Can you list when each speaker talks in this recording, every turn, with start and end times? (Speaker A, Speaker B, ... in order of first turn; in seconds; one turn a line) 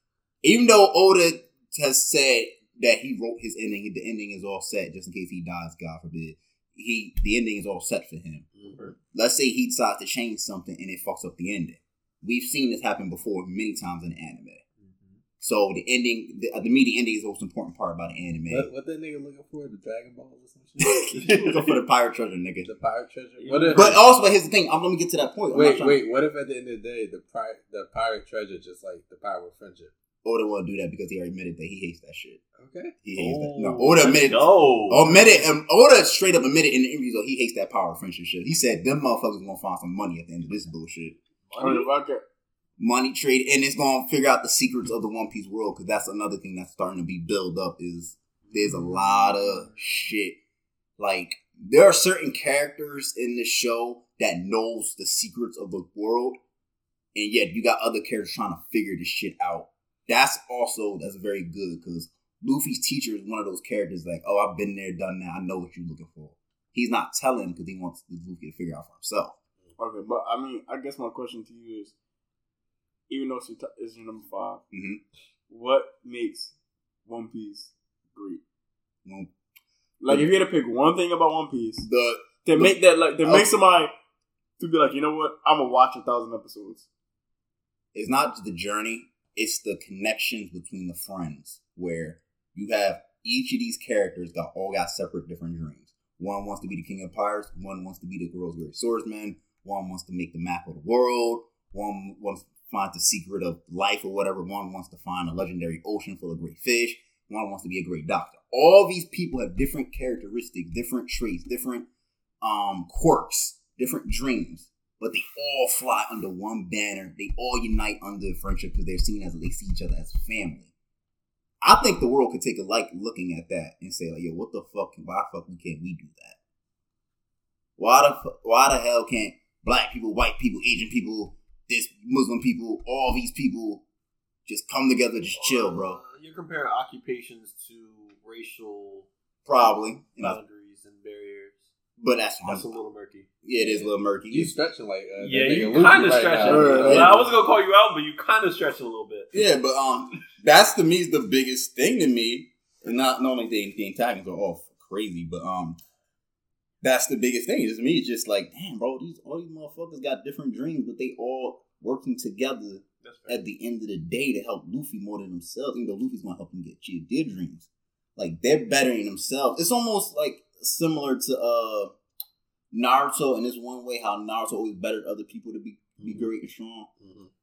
Speaker A: 0.4-8.5
Speaker B: 8.6-8.9
Speaker A: 9.1-14.6
Speaker B: 14.8-15.2
Speaker A: 15.4-18.7
Speaker C: 18.5-21.1
Speaker A: 20.8-22.7
Speaker B: 21.1-21.8
Speaker C: 22.6-24.0
Speaker B: 23.4-24.0
Speaker A: 23.7-26.0
Speaker C: 25.5-29.9
Speaker A: 30.2-32.4
Speaker C: 32.6-33.0
Speaker A: 33.0-41.1
Speaker B: 33.1-35.5
Speaker B: 41.5-41.9
Speaker D: 41.6-42.2
Speaker A: 42.8-50.4
Speaker B: 48.5-50.1
Speaker A: 51.0-56.4
Speaker A: 57.1-69.4
Speaker D: 69.8-71.9
Speaker D: 73.1-74.6
Speaker A: 74.7-75.0
Speaker D: 75.5-76.5
Speaker D: 77.1-78.4
Speaker A: 79.0-79.3
Speaker D: 80.0-81.9
Speaker A: 81.8-83.5
Speaker D: 82.4-83.9
Speaker D: 84.6-86.9
Speaker A: 87.9-111.9
Speaker A: 112.4-120.7
Speaker A: 121.6-126.4
Speaker A: 127.8-133.8
Speaker A: 134.5-136.0
Speaker B: 135.3-139.1
Speaker A: 139.5-140.4
Speaker B: 140.2-141.7
Speaker A: 142.0-142.7
Speaker B: 142.4-143.3
Speaker A: 143.4-144.5
Speaker C: 144.3-147.3
Speaker B: 145.2-149.3
Speaker D: 146.4-147.2
Speaker A: 146.8-147.2
Speaker A: 149.3-155.8
Speaker A: 156.8-171.9
Speaker B: 163.0-163.4
Speaker A: 172.7-176.9
Speaker C: 176.0-176.3
Speaker C: 177.0-177.3